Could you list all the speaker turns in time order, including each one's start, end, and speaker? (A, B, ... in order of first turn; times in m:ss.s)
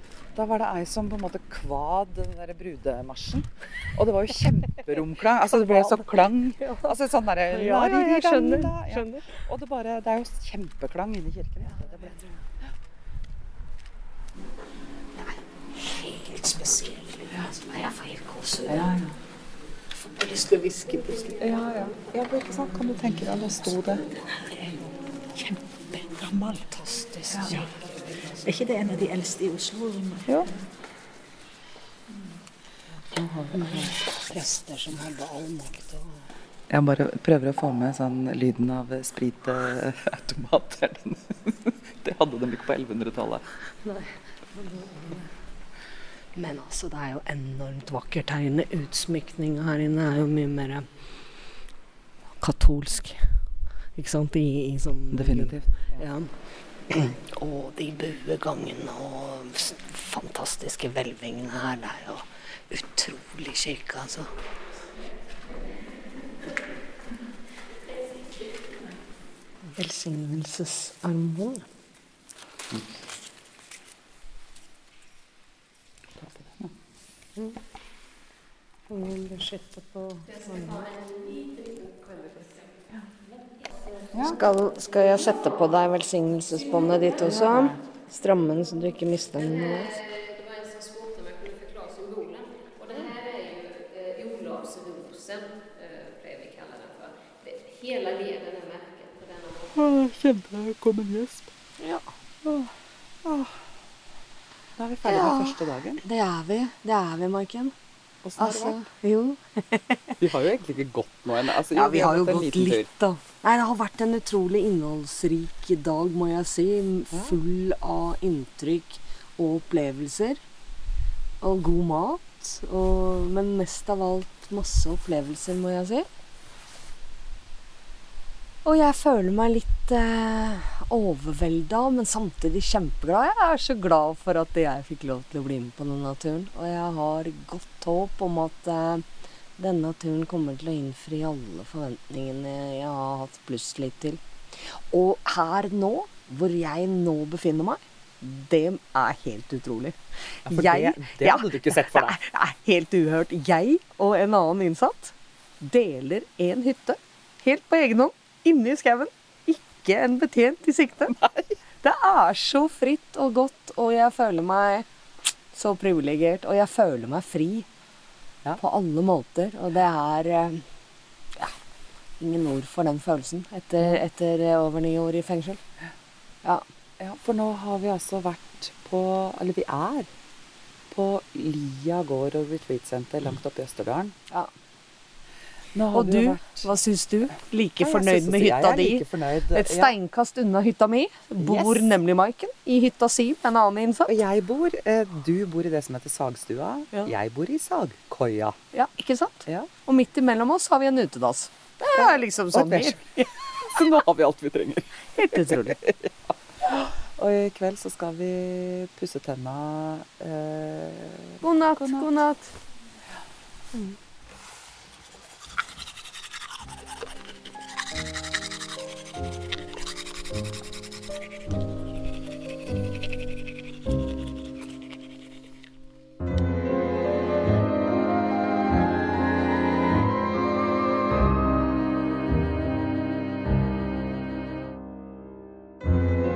0:00.4-0:12.2 A
0:05.5-0:07.0 B
0:07.5-0:09.4 B
0:15.2-0:18.9 B
0:18.7-0:19.1 A
0:20.1-0:21.4 B
0:21.4-0:24.0 A
0:24.4-0:24.8 B
0:25.4-0:26.7 C
0:26.7-0:28.5 B
0:28.4-0:30.3 C
0:33.1-0:34.0 A
0:33.5-0:36.1 B
0:36.7-0:43.4 A
0:43.8-0:45.3 B
0:46.4-0:50.9 B
0:52.4-0:53.4 B
0:54.0-0:56.3 B
0:55.1-0:56.0 A
0:56.9-1:04.3 B
1:09.8-1:11.7 B
1:16.2-1:16.7 A
1:18.9-1:21.0 B
1:24.2-1:30.1 B
1:27.3-1:27.8 A
1:31.7-1:33.3 B
1:34.0-1:39.6 B
1:39.7-1:41.5 A
1:41.8-1:42.1 B
1:42.4-1:42.7 A
1:43.2-1:43.6 A
1:44.8-1:46.0 A
1:45.0-1:47.8 B
1:48.2-1:48.8 A
1:48.4-1:50.1 B
1:50.2-1:52.9 A
1:51.7-2:00.4 B
2:01.4-2:06.1 B
2:08.6-2:19.0 B
2:19.6-2:41.2 B
2:30.5-2:32.2 A
2:41.1-2:41.5 A
2:41.8-2:44.9 B
2:45.5-2:47.7 B
2:48.6-2:50.7 B
2:52.2-2:55.6 B
2:57.0-3:00.1 A
3:00.9-3:04.2 A
3:05.7-3:06.7 A
3:05.9-3:14.1 B
3:07.8-3:09.9 A
3:11.4-3:11.8 A
3:14.1-3:18.6 A
3:18.7-3:23.3 B
3:22.0-3:26.1 A
3:25.2-3:25.8 B
3:26.6-3:32.1 A
3:31.4-3:32.6 B